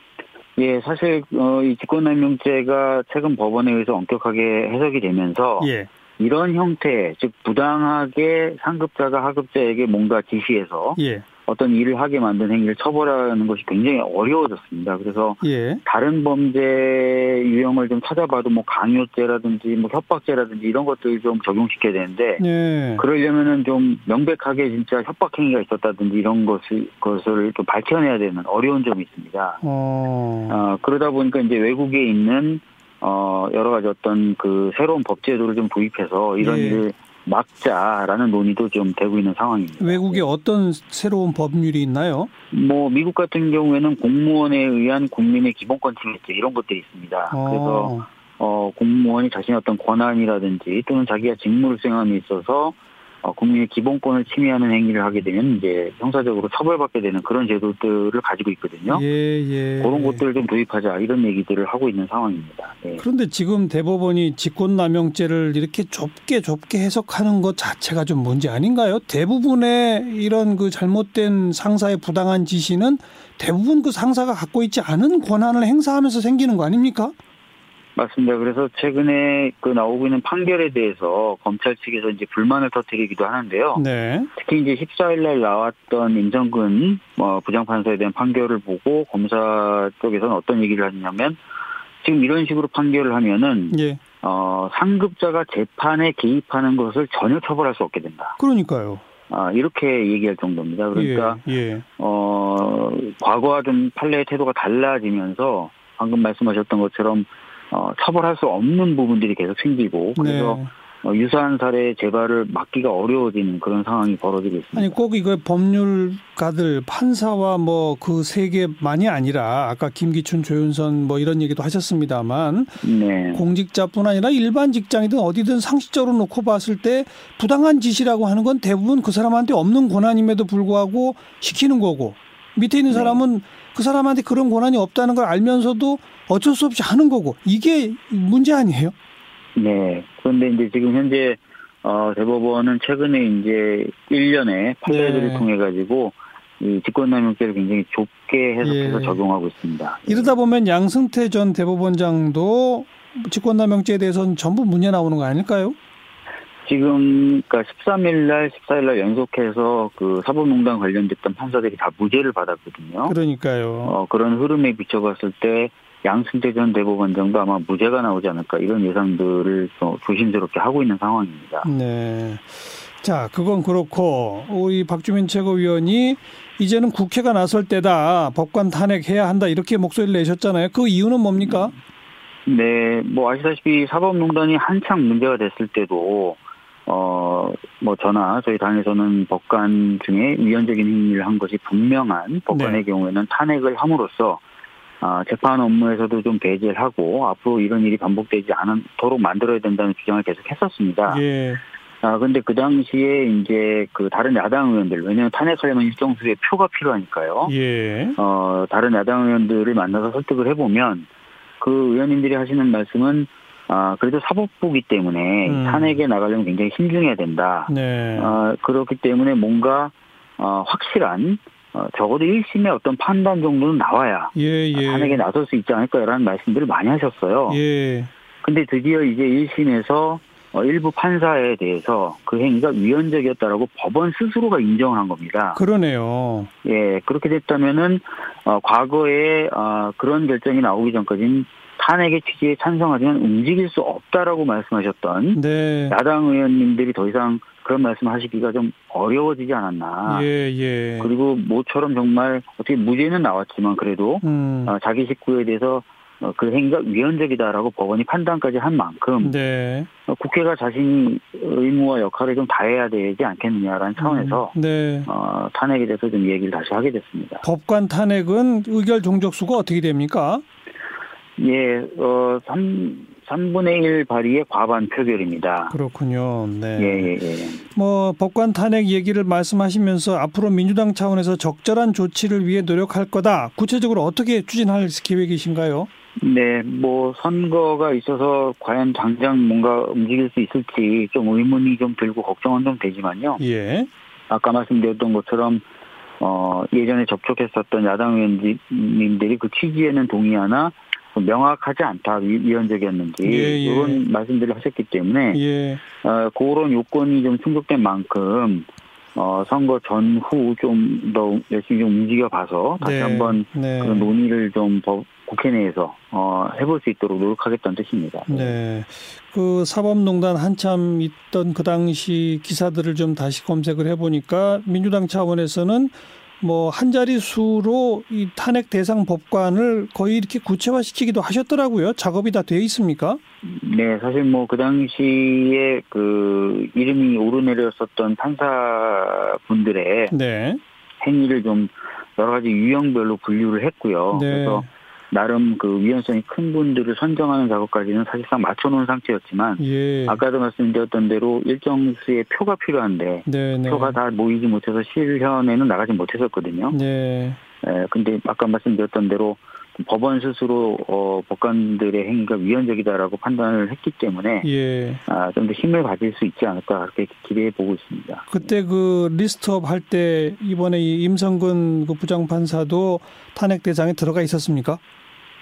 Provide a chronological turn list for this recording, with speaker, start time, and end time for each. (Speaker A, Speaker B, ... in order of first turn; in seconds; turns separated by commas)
Speaker A: 0.6-22.4, Speaker B: 5.6-5.9, Speaker B: 11.0-11.2, Speaker B: 15.4-15.8, Speaker B: 22.4-23.0, Speaker A: 23.0-29.6, Speaker B: 29.6-30.6, Speaker A: 30.5-40.3, Speaker B: 36.4-36.8, Speaker B: 39.8-42.3, Speaker A: 42.5-59.0, Speaker B: 47.3-48.1, Speaker B: 58.9-60.2, Speaker A: 59.8-63.0, Speaker B: 63.0-77.1, Speaker A: 78.0-83.8, Speaker B: 83.8-84.3, Speaker A: 84.4-91.4, Speaker A: 92.0-98.4, Speaker B: 93.7-94.0, Speaker B: 98.4-99.0, Speaker A: 99.3-101.4, Speaker B: 101.0-101.8, Speaker A: 102.0-115.0, Speaker B: 110.2-110.7, Speaker B: 114.8-122.7, Speaker A: 122.8-123.4, Speaker B: 123.3-138.9, Speaker A: 132.9-133.2, Speaker A: 139.6-150.4, Speaker B: 144.9-145.5, Speaker B: 148.6-149.2, Speaker B: 150.1-155.8, Speaker A: 156.7-163.2, Speaker B: 163.1-164.0, Speaker A: 163.9-171.7, Speaker B: 171.6-181.8, Speaker A: 182.5-194.4, Speaker B: 192.5-192.8, Speaker A: 195.0-201.2, Speaker B: 201.1-201.6, Speaker A: 202.0-207.5, Speaker B: 207.5-208.2, Speaker A: 208.2-211.1, Speaker A: 211.6-227.6, Speaker B: 215.5-216.0, Speaker B: 217.7-218.4, Speaker B: 224.3-225.2, Speaker B: 227.5-228.1, Speaker A: 228.4-235.6, Speaker B: 235.6-236.5, Speaker A: 236.6-250.3, Speaker B: 245.3-245.9, Speaker B: 250.1-251.1, Speaker A: 251.0-259.4, Speaker B: 254.2-254.7, Speaker B: 259.2-259.9, Speaker A: 260.1-264.5, Speaker B: 264.0-265.1, Speaker A: 265.1-267.4, Speaker B: 267.4-270.4, Speaker A: 271.4-275.7, Speaker B: 275.7-277.1, Speaker A: 276.8-277.6, Speaker B: 277.7-285.9, Speaker A: 286.2-293.4, Speaker B: 293.4-293.9, Speaker A: 294.3-295.6, Speaker A: 296.2-305.4, Speaker B: 303.2-304.0, Speaker B: 305.3-305.8, Speaker A: 306.0-318.6, Speaker B: 312.8-314.1, Speaker B: 318.3-333.2, Speaker A: 333.4-340.1, Speaker B: 340.1-340.6, Speaker A: 341.0-356.8, Speaker B: 344.1-344.7, Speaker B: 349.6-350.2, Speaker B: 353.2-354.0, Speaker B: 356.7-357.4, Speaker A: 357.6-364.5, Speaker B: 364.4-365.0, Speaker A: 365.1-368.4, Speaker B: 368.3-374.8